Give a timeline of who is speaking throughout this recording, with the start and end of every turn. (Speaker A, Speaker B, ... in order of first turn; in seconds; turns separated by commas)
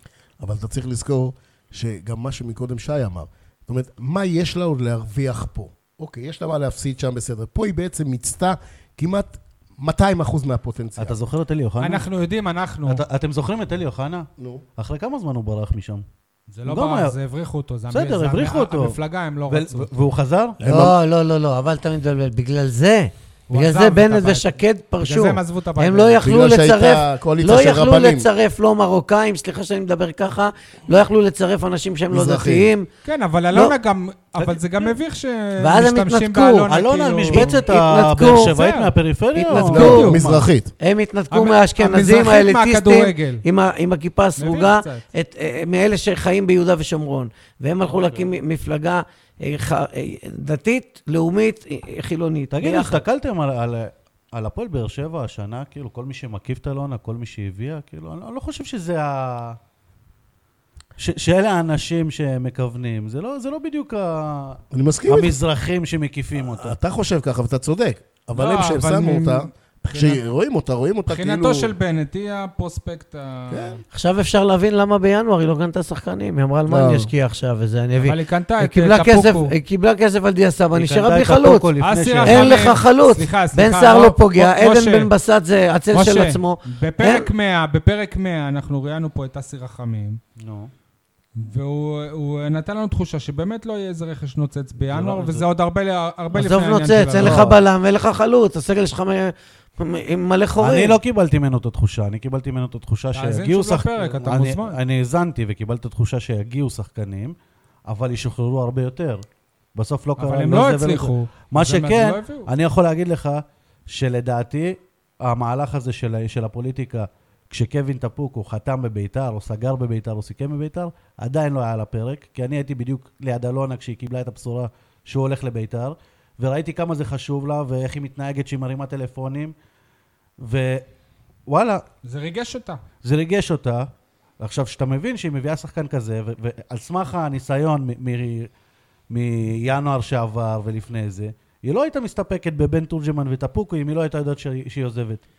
Speaker A: 0.4-11.2, Speaker B: 11.0-12.1, Speaker C: 11.8-13.0, Speaker B: 12.9-16.1, Speaker A: 14.4-14.6, Speaker C: 16.5-19.9, Speaker B: 16.6-17.1, Speaker B: 17.9-19.0, Speaker B: 19.5-20.6, Speaker A: 20.6-20.9, Speaker D: 20.6-32.9, Speaker C: 23.5-26.2, Speaker A: 26.2-28.3, Speaker A: 32.1-32.7, Speaker C: 33.0-37.6, Speaker D: 35.6-36.7, Speaker B: 36.7-40.5, Speaker D: 37.3-38.5, Speaker C: 38.3-38.9, Speaker D: 39.4-40.1, Speaker A: 39.5-40.7, Speaker C: 39.6-40.2, Speaker D: 40.8-53.0, Speaker C: 41.3-43.4, Speaker C: 44.4-45.0, Speaker B: 47.9-48.3, Speaker B: 52.5-59.6, Speaker B: 61.0-66.8, Speaker A: 64.7-65.4, Speaker A: 66.4-71.7, Speaker C: 68.3-70.2, Speaker C: 71.1-73.8, Speaker A: 73.5-73.8, Speaker D: 73.9-81.7, Speaker A: 76.7-77.1, Speaker C: 78.0-79.5, Speaker B: 80.8-82.8, Speaker C: 81.8-85.1, Speaker D: 82.2-87.3, Speaker C: 85.9-90.2, Speaker B: 90.4-90.7, Speaker C: 91.4-97.5, Speaker B: 94.8-95.5, Speaker D: 96.3-101.0, Speaker B: 97.2-97.6, Speaker B: 100.6-107.3, Speaker C: 103.1-104.8, Speaker B: 107.9-129.6, Speaker C: 110.2-112.5, Speaker B: 130.4-130.9, Speaker B: 131.5-131.8, Speaker C: 132.0-132.8, Speaker B: 133.0-138.5, Speaker B: 139.1-145.2